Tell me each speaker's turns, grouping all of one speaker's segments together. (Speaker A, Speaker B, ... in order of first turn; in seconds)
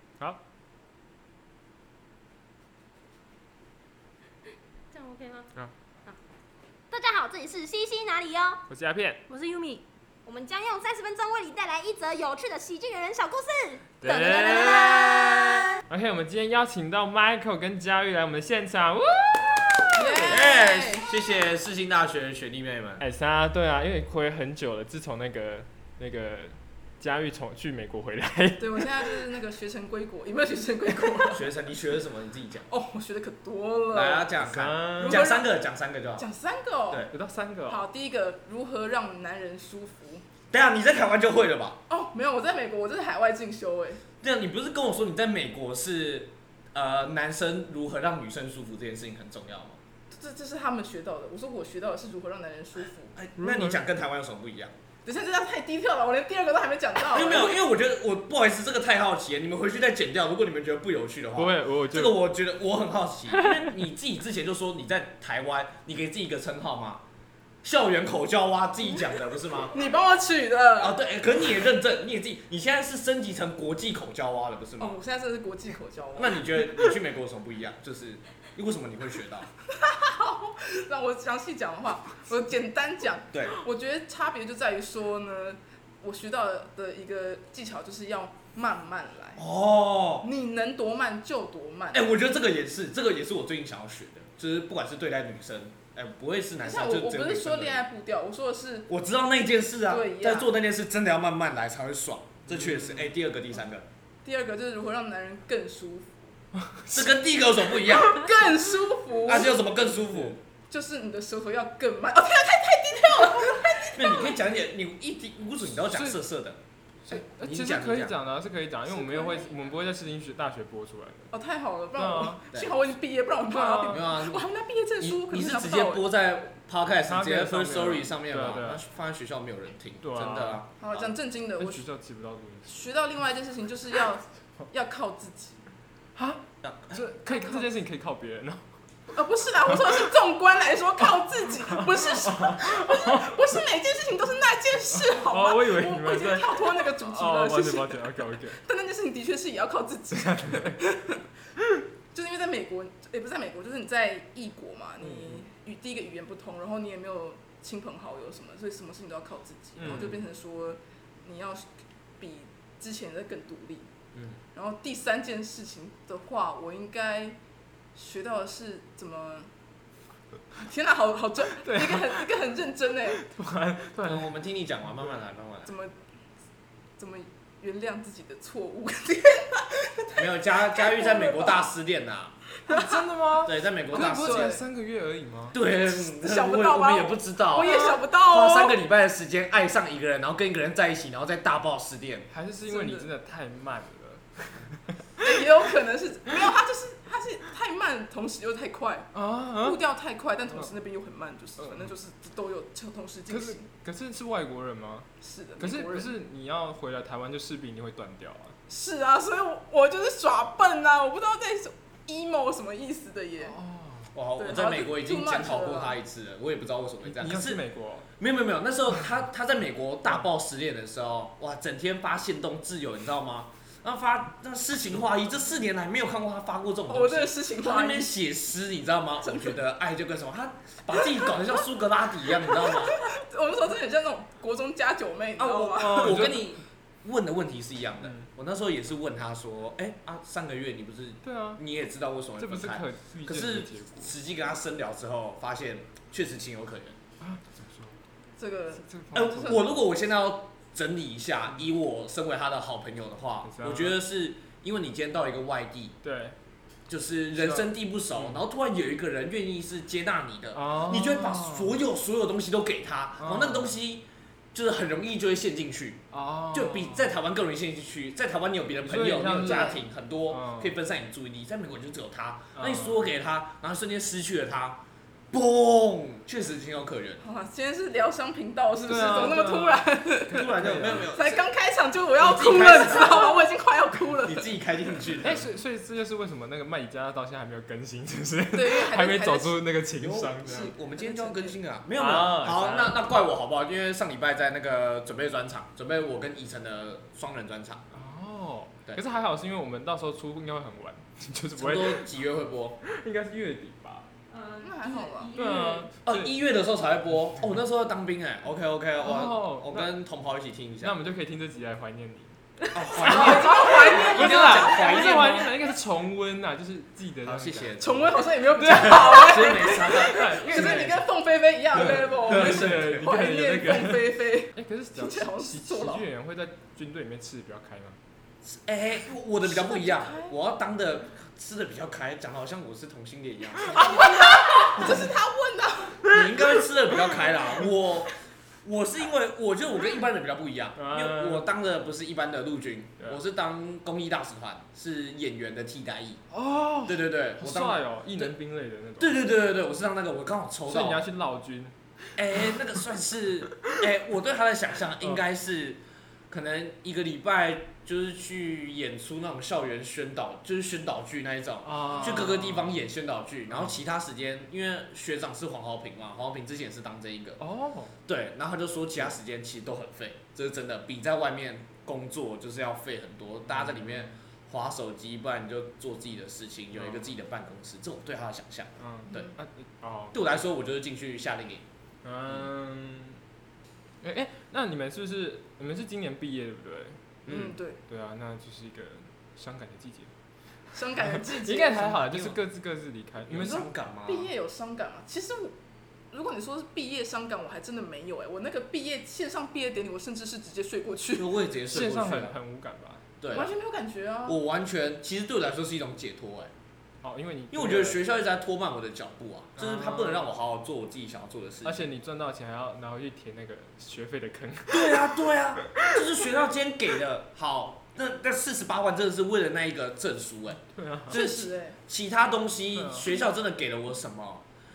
Speaker A: 4.9-5.5, 6.9-8.6, 9.3-15.8, 305.5-305.9
Speaker B: 8.7-9.2, 14.0-15.1, 15.9-20.2, 23.0-29.1, 34.4-35.3, 37.1-37.8, 53.4-53.9, 61.4-62.2, 63.4-63.6, 102.5-103.1, 106.6-107.0, 115.9-116.2, 117.0-121.3, 122.0-122.4, 123.5-124.0, 127.1-128.8, 130.0-130.6, 131.6-132.7, 136.2-138.7, 139.7-140.0, 141.1-143.4, 144.9-148.6, 150.1-150.8, 159.8-160.2, 171.6-172.3, 173.1-174.3, 182.7-185.6, 187.6-187.9, 192.3-195.4, 199.1-199.8, 201.6-201.9, 203.3-208.6, 213.4-214.1, 217.1-218.1, 235.7-236.5, 238.0-238.3, 241.2-241.6, 242.4-244.1, 247.2-248.0, 248.8-249.7, 253.4-253.9, 256.0-256.4, 257.4-258.4, 260.5-261.8, 263.2-263.7, 266.1-267.1, 268.8-270.7, 272.5-273.1, 278.9-281.1, 285.2-290.7, 291.9-293.0, 297.9-302.1, 302.8-304.1, 305.3-306.3, 309.0-309.9, 310.8-312.4, 313.0-317.8, 318.4-321.0, 321.7-328.0, 340.8-341.5, 346.3-349.2, 350.6-351.7, 361.6-362.8, 367.4-367.9, 373.4-374.1, 376.7-377.1, 378.8-380.2, 382.0-383.2, 384.0-387.0, 387.8-390.1, 391.0-393.7, 401.7-403.0, 407.0-408.0, 409.6-410.3, 411.6-416.0, 420.7-421.2, 422.7-423.1
Speaker C: 14.6-15.3, 20.2-23.0, 31.3-32.7, 33.9-36.2, 40.5-41.8, 44.2-49.8, 53.1-54.7, 57.0-67.0, 67.6-69.8, 70.8-75.0, 76.2-79.5, 89.3-90.3, 91.9-97.8, 98.9-103.8, 106.9-108.3, 109.2-110.4, 113.9-118.2, 123.8-124.5, 125.0-131.0, 136.6-137.0, 155.0-155.3, 159.8-160.1, 164.1-164.4, 174.0-175.7, 180.2-182.4, 183.4-184.6, 185.5-192.3, 214.1-217.6, 218.2-233.0, 235.4-247.0, 249.1-255.9, 256.9-277.2, 280.3-281.4, 282.2-283.4, 284.2-285.4, 290.0-297.8, 301.5-302.8, 306.0-310.9, 312.7-315.6, 317.2-321.0, 321.7-323.1, 328.4-334.1, 334.7-335.1, 336.1-338.1, 338.6-346.2, 346.8-348.4, 349.0-351.0, 352.1-367.4, 368.1-379.3, 380.1-381.6, 387.2-387.6, 392.1-392.3, 393.3-394.3, 401.1-402.3, 403.2-403.5, 404.2-406.5, 407.5-411.9, 414.7-424.4
Speaker D: 19.9-21.1, 28.6-31.4, 32.7-34.3, 35.0-35.5, 36.2-37.1, 37.7-40.2, 41.9-44.0, 50.1-53.1, 55.0-57.6, 69.7-71.0, 74.8-76.9, 79.7-89.4, 90.2-92.1, 96.6-98.9, 99.9-100.5, 104.2-106.3, 107.9-109.6, 110.7-114.3, 118.9-119.5, 121.3-126.0, 130.8-131.8, 132.7-135.6, 137.2-137.7, 139.1-151.2, 152.1-161.7, 162.2-163.9, 164.5-167.4, 167.9-169.5, 170.5-173.2, 175.6-175.9, 177.0-181.6, 182.6-183.1, 183.9-184.6, 185.8-188.8, 192.7-193.1, 195.2-203.7, 205.2-206.1, 208.7-213.6, 214.4-215.9, 226.9-228.1, 232.4-236.2, 248.4-249.6, 269.3-269.8, 277.2-284.5, 288.5-289.6, 290.4-291.6, 304.6-305.4, 312.9-315.3, 317.8-326.1, 329.4-330.3, 333.7-336.1, 387.3-387.8, 390.7-392.2, 393.4-395.5, 396.1-401.3, 403.3-404.4, 421.1-421.8